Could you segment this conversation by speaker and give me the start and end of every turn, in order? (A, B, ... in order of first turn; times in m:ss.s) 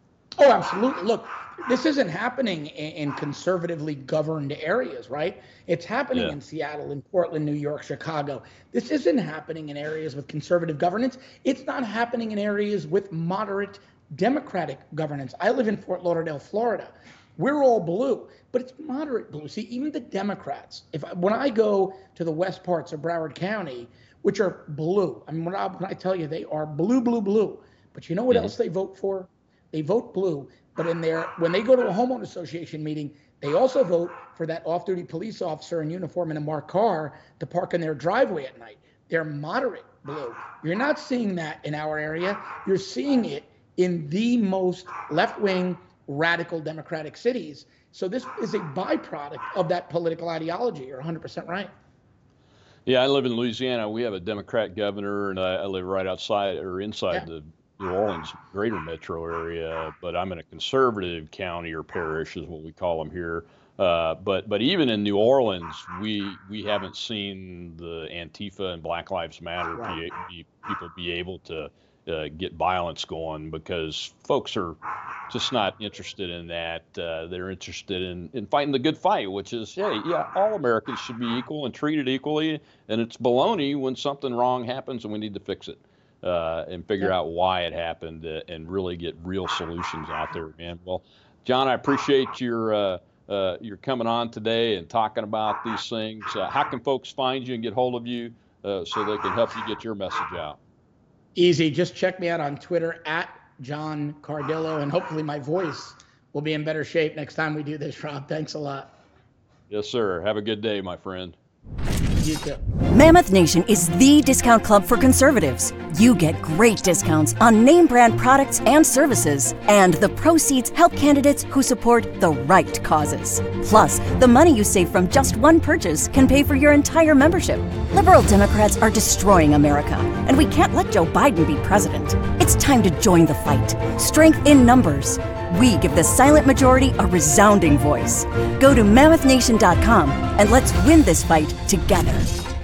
0:00.4-0:51.7 A
0:52.8-1:14.8 B
1:15.3-1:40.6 B
1:41.4-1:48.9 A
1:49.7-1:51.4 B
1:52.2-1:52.6 A
1:52.9-2:22.3 C